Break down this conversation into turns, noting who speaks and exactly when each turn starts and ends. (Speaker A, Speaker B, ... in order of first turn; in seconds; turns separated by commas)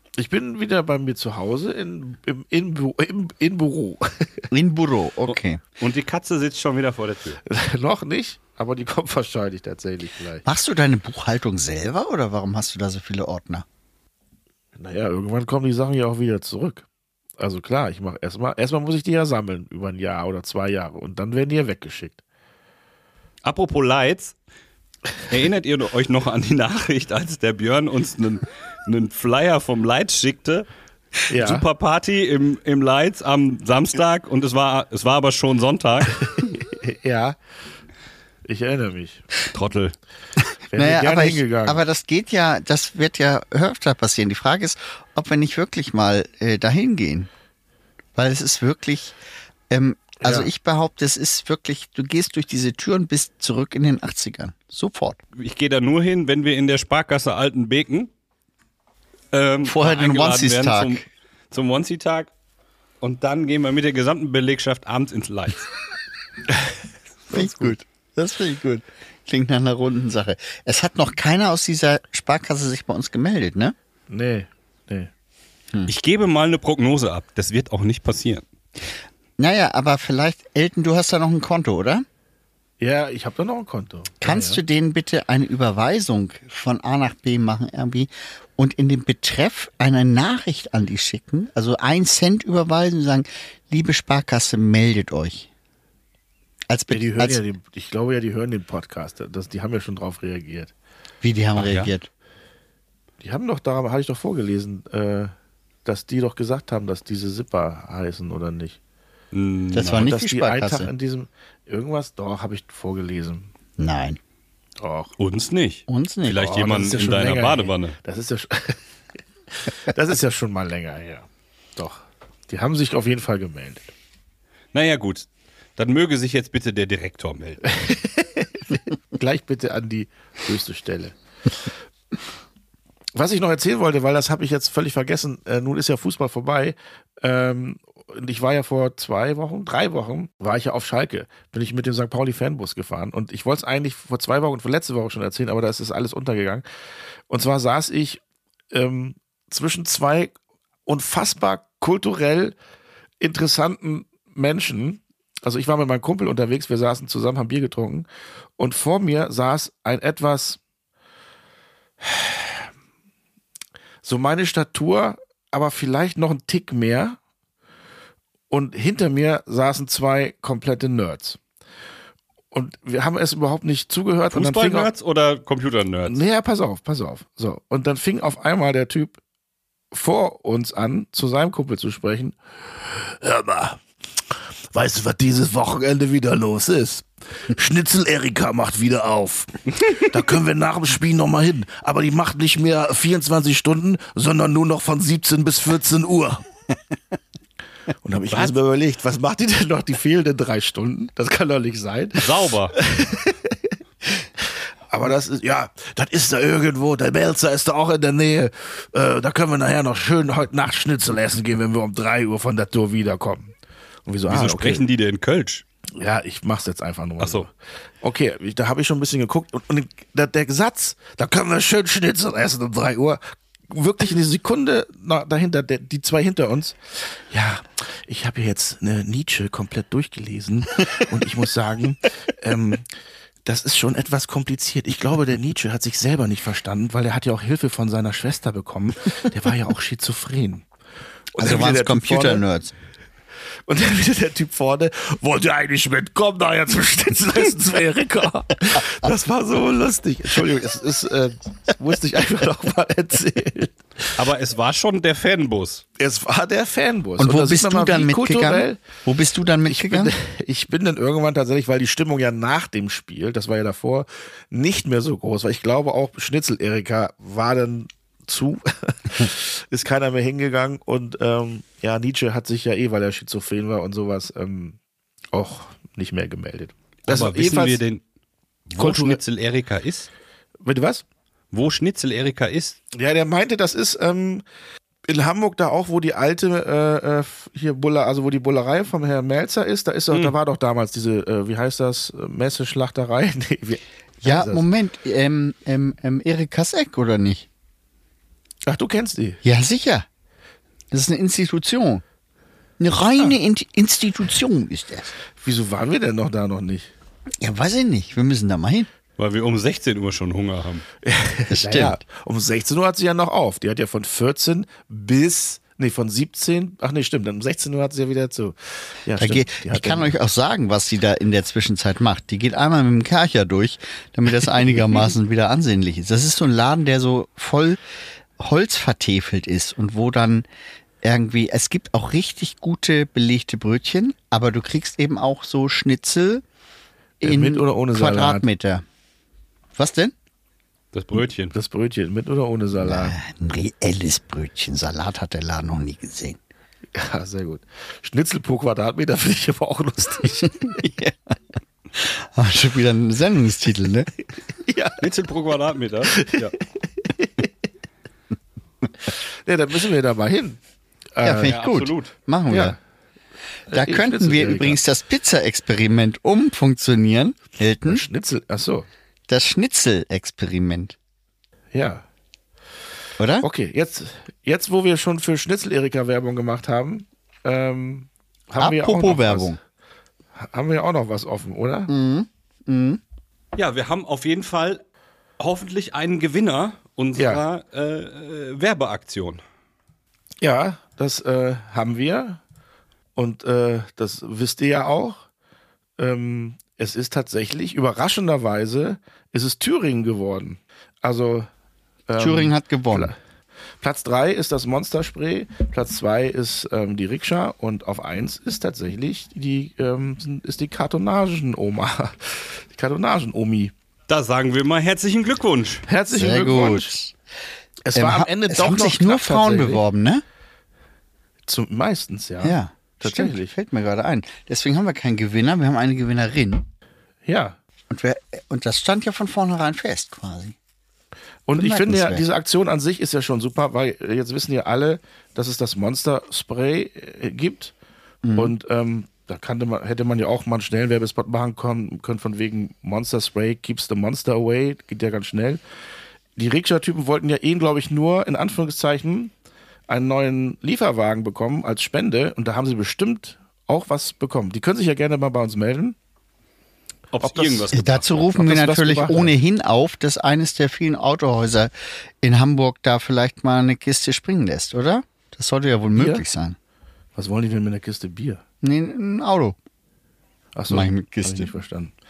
Speaker A: 0.2-4.5, Speaker B: 4.5-5.6, Speaker C: 5.3-7.4, Speaker A: 7.5-10.4, Speaker B: 10.4-13.7, Speaker A: 14.8-16.9, Speaker A: 17.4-22.2, Speaker C: 23.4-24.4, Speaker C: 25.3-30.7, Speaker A: 31.3-31.6, Speaker C: 31.3-36.2, Speaker A: 36.4-37.4, Speaker A: 38.5-39.2, Speaker C: 39.5-40.0, Speaker A: 40.7-41.8, Speaker B: 40.8-47.3, Speaker B: 48.2-49.2, Speaker B: 49.7-55.2, Speaker A: 50.2-50.5, Speaker C: 55.4-58.1, Speaker C: 59.3-62.3, Speaker B: 59.6-61.0, Speaker C: 63.0-65.7, Speaker A: 67.3-67.8, Speaker B: 67.3-73.7, Speaker A: 74.1-75.1, Speaker C: 75.9-78.5, Speaker B: 79.4-82.0, Speaker A: 82.8-84.6, Speaker B: 84.2-95.5, Speaker B: 96.7-97.4, Speaker A: 96.9-100.7, Speaker B: 101.2-102.1, Speaker C: 101.6-101.9, Speaker A: 103.2-105.3, Speaker A: 105.8-108.8, Speaker C: 109.3-110.1, Speaker B: 109.7-110.9, Speaker A: 110.0-113.5, Speaker B: 113.8-114.2, Speaker A: 114.8-115.1, Speaker C: 115.2-118.0, Speaker B: 115.9-116.4, Speaker A: 116.4-118.8, Speaker A: 119.6-123.9, Speaker C: 124.7-127.6, Speaker A: 127.7-131.7, Speaker A: 133.2-146.7, Speaker A: 147.3-150.3, Speaker A: 150.9-152.6, Speaker A: 153.2-158.1, Speaker A: 158.6-160.6, Speaker A: 162.0-162.7, Speaker A: 164.0-167.2, Speaker A: 168.5-171.4, Speaker A: 172.5-174.9, Speaker C: 174.3-176.2, Speaker A: 176.1-179.2, Speaker A: 179.9-183.8, Speaker A: 184.7-196.5, Speaker A: 198.0-203.6, Speaker C: 202.2-202.8, Speaker A: 204.2-213.5, Speaker A: 214.1-214.8, Speaker C: 214.3-215.6, Speaker A: 216.0-232.9, Speaker C: 217.2-217.5, Speaker A: 233.4-240.7, Speaker A: 241.3-242.4, Speaker B: 241.4-242.7, Speaker A: 243.7-253.8, Speaker C: 254.2-255.8, Speaker A: 256.0-258.8, Speaker B: 257.2-260.1, Speaker A: 259.7-274.8, Speaker A: 275.3-277.8, Speaker C: 277.1-278.0, Speaker C: 278.7-280.1, Speaker A: 278.8-279.2, Speaker A: 280.6-281.0, Speaker C: 281.5-282.8, Speaker A: 282.9-284.4, Speaker A: 285.1-294.6, Speaker B: 294.2-297.5, Speaker A: 298.7-299.4, Speaker B: 299.4-300.1, Speaker B: 300.9-302.0, Speaker B: 302.8-305.1, Speaker A: 305.4-306.9, Speaker B: 307.4-308.9, Speaker C: 309.2-310.8, Speaker A: 311.0-320.1, Speaker B: 311.5-312.0, Speaker B: 319.2-327.8, Speaker B: 328.4-330.5, Speaker B: 331.0-336.4, Speaker A: 337.2-338.5, Speaker B: 337.2-338.8, Speaker B: 339.8-340.1, Speaker C: 340.9-341.5, Speaker A: 341.5-343.2, Speaker B: 342.8-346.4, Speaker A: 346.9-350.8, Speaker B: 350.6-351.4, Speaker B: 351.9-354.1, Speaker A: 354.6-355.1, Speaker C: 355.0-356.6, Speaker A: 356.1-356.5, Speaker A: 357.1-357.5, Speaker A: 359.1-360.6, Speaker A: 361.2-361.6, Speaker B: 361.2-362.8, Speaker C: 361.3-362.1, Speaker A: 362.5-362.8, Speaker A: 363.7-364.8, Speaker B: 363.7-368.0, Speaker A: 367.9-368.9, Speaker B: 369.3-371.0, Speaker A: 371.7-372.0, Speaker B: 373.2-373.5, Speaker A: 373.4-379.6, Speaker B: 378.6-379.6, Speaker A: 380.4-381.9, Speaker B: 381.9-383.0, Speaker C: 383.6-384.8, Speaker C: 385.4-389.4, Speaker A: 390.4-392.4, Speaker A: 393.2-395.2, Speaker A: 396.0-401.5, Speaker A: 402.1-403.2, Speaker B: 402.2-403.1, Speaker A: 403.8-413.7, Speaker C: 414.1-415.9, Speaker A: 415.9-416.9, Speaker B: 416.1-417.1, Speaker A: 417.9-419.8, Speaker B: 417.9-420.2, Speaker A: 421.5-423.5, Speaker B: 422.4-426.7, Speaker A: 427.3-427.6, Speaker B: 427.9-430.6, Speaker A: 431.5-437.7, Speaker B: 431.6-432.2, Speaker B: 438.2-438.5, Speaker A: 438.3-445.6, Speaker A: 446.4-449.3, Speaker A: 449.9-455.9, Speaker C: 457.1-458.4, Speaker A: 457.2-457.7, Speaker B: 457.7-461.7, Speaker A: 458.4-459.3, Speaker B: 462.2-466.6, Speaker A: 466.0-466.2, Speaker A: 467.2-468.4, Speaker B: 468.6-469.6, Speaker A: 470.6-471.9, Speaker B: 470.7-471.5